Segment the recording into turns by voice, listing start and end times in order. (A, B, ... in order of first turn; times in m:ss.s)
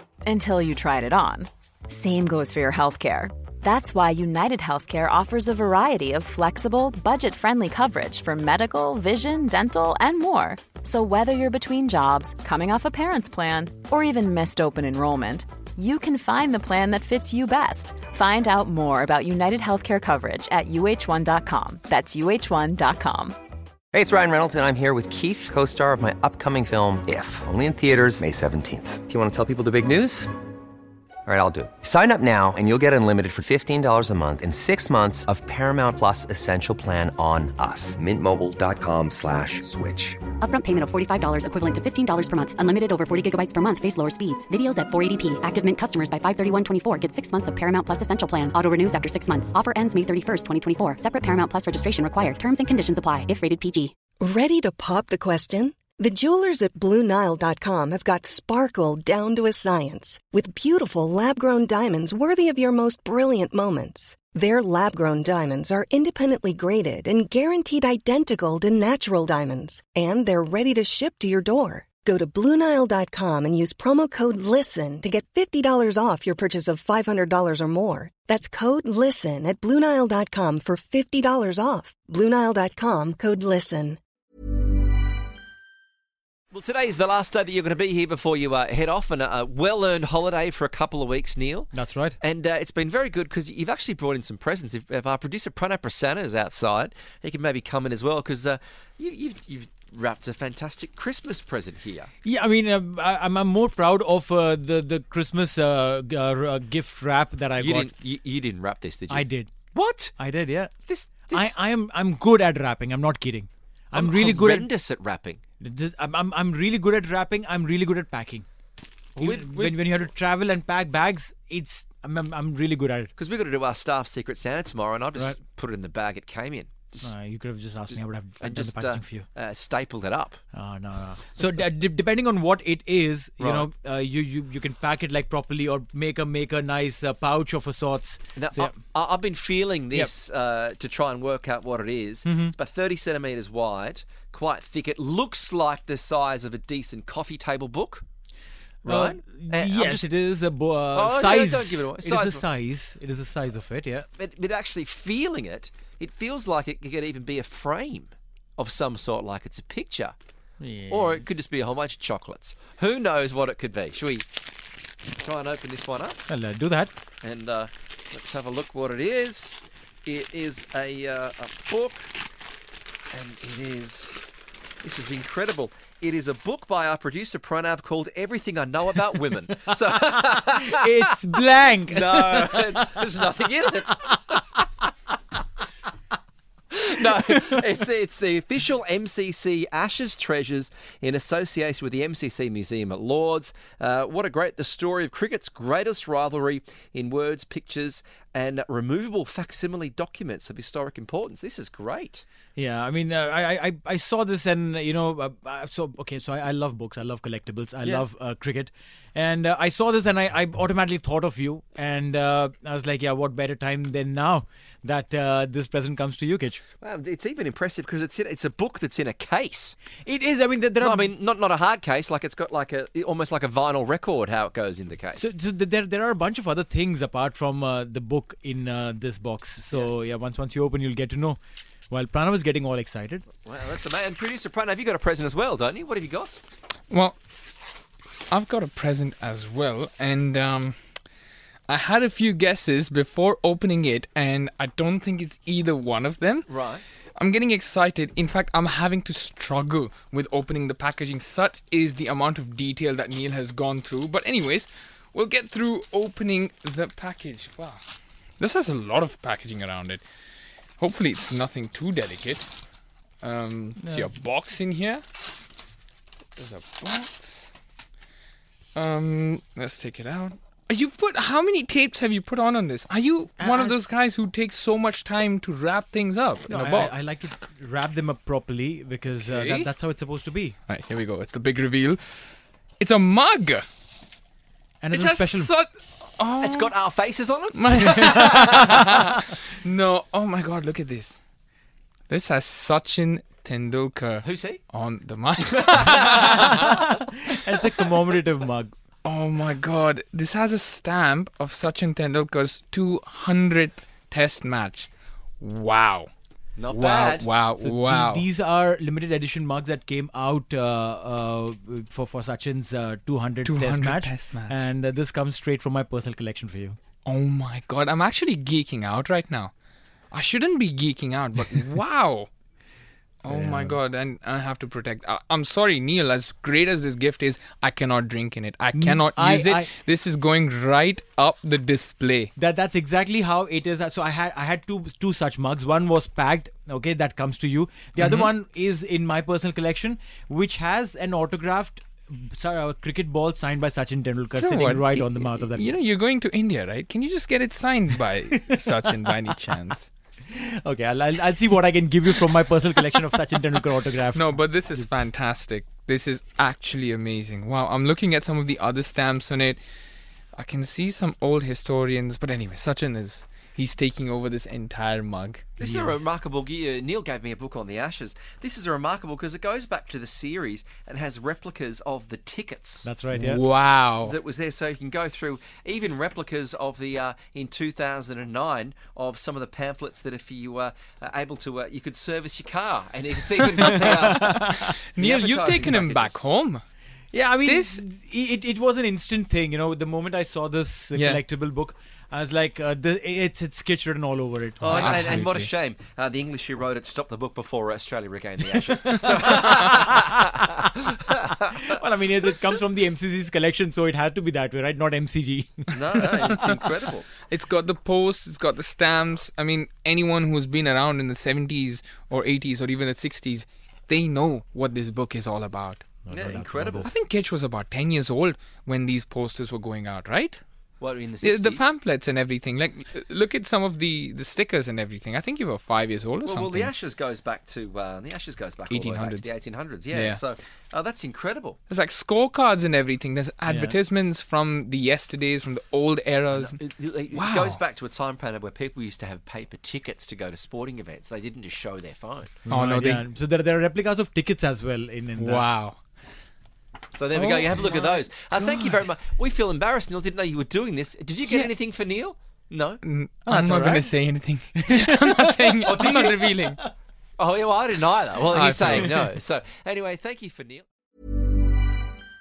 0:00.2-0:23.4 A
0:23.9-0:30.3 B
0:31.3-0:40.2 B
0:40.4-0:53.9 C
0:54.2-1:24.0 D
1:26.5-1:42.1 E
1:31.7-1:32.2 F
1:42.2-1:47.9 F
1:47.6-1:50.1 E
1:49.1-1:49.5 F
1:50.2-1:50.7 F
1:50.9-1:51.6 E
1:51.3-1:54.8 F
1:53.9-1:55.4 E
1:55.6-1:58.4 F
1:59.2-1:59.8 E
1:59.2-2:03.1 F
2:03.2-2:07.1 E
2:07.0-2:09.3 F
2:07.9-2:10.4 E
2:10.5-2:18.8 F
2:13.4-2:13.7 E
2:18.4-2:28.0 E
2:22.2-2:22.5 F
2:28.8-2:30.1 E
2:28.8-2:34.1 F
2:30.9-2:32.4 E
2:34.2-2:40.2 E
2:40.6-2:41.3 F
2:40.9-2:44.3 E
2:45.2-2:46.2 E
2:46.3-2:46.9 F
2:47.2-2:52.1 E
2:53.1-2:54.2 E
2:54.8-3:04.4 E
3:00.1-3:03.1 F
3:06.7-3:22.2 E
3:22.6-3:36.6 F
3:36.8-3:39.8 E
3:40.0-3:41.1 F
3:40.8-3:45.3 E
3:45.1-3:51.4 F
3:51.9-3:53.2 F
3:53.4-3:56.4 E
3:56.9-3:57.2 G
3:58.3-4:00.8 G
4:01.7-4:06.5 G
4:06.5-4:06.8 E
4:07.2-4:17.8 G
4:18.4-4:20.0 G
4:20.8-4:22.5 G
4:23.2-4:25.0 G
4:23.8-4:24.1 F
4:26.4-4:27.5 G
4:28.8-4:37.0 G
4:33.4-4:33.8 F
4:36.5-4:40.6 F
4:39.2-4:39.7 G
4:40.7-4:43.7 G
4:44.8-4:45.5 F
4:44.9-4:46.8 G
4:46.4-4:48.9 E
4:47.5-4:51.2 G
4:52.1-4:56.8 G
4:54.2-4:54.6 E
4:55.6-4:56.4 E
4:56.6-4:58.7 F
4:59.0-5:04.9 G
5:05.4-5:06.1 G
5:06.6-5:07.3 E
5:06.7-5:08.3 G
5:07.6-5:16.8 F
5:13.4-5:14.7 G
5:17.1-5:19.5 G
5:20.1-5:22.3 G
5:23.2-5:32.3 G
5:23.3-5:23.8 F
5:28.7-5:29.7 F
5:32.4-5:45.7 F
5:38.0-5:38.3 G
5:44.4-5:49.9 G
5:48.5-5:49.0 F
5:50.3-5:55.1 F
5:54.1-5:59.6 G
6:00.4-6:05.5 G
6:05.6-6:12.9 E
6:05.6-6:06.0 F
6:12.8-6:13.4 F
6:13.1-6:14.1 G
6:14.0-6:24.3 E
6:23.6-6:26.6 G
6:23.7-6:24.4 F
6:25.0-6:26.2 E
6:27.1-6:35.3 F
6:27.4-6:27.8 G
6:31.0-6:31.2 G
6:34.6-6:41.6 E
6:34.6-6:35.5 G
6:39.0-6:40.0 F
6:41.5-6:45.8 F
6:45.7-6:47.1 E
6:47.2-6:55.9 G
6:56.0-6:56.9 F
6:56.1-6:56.9 E
6:56.8-7:00.4 G
7:00.8-7:01.7 E
7:01.2-7:06.7 G
7:06.2-7:11.6 E
7:08.7-7:09.3 G
7:09.9-7:10.2 G
7:11.7-7:17.6 G
7:13.5-7:13.8 F
7:16.4-7:22.4 E
7:22.5-7:25.5 F
7:22.5-7:23.0 G
7:25.2-7:25.8 G
7:26.9-7:32.8 E
7:27.1-7:28.8 G
7:32.8-7:36.6 G
7:33.3-7:33.9 F
7:34.8-7:36.5 F
7:35.6-7:36.3 E
7:37.2-7:40.6 E
7:38.3-7:38.9 G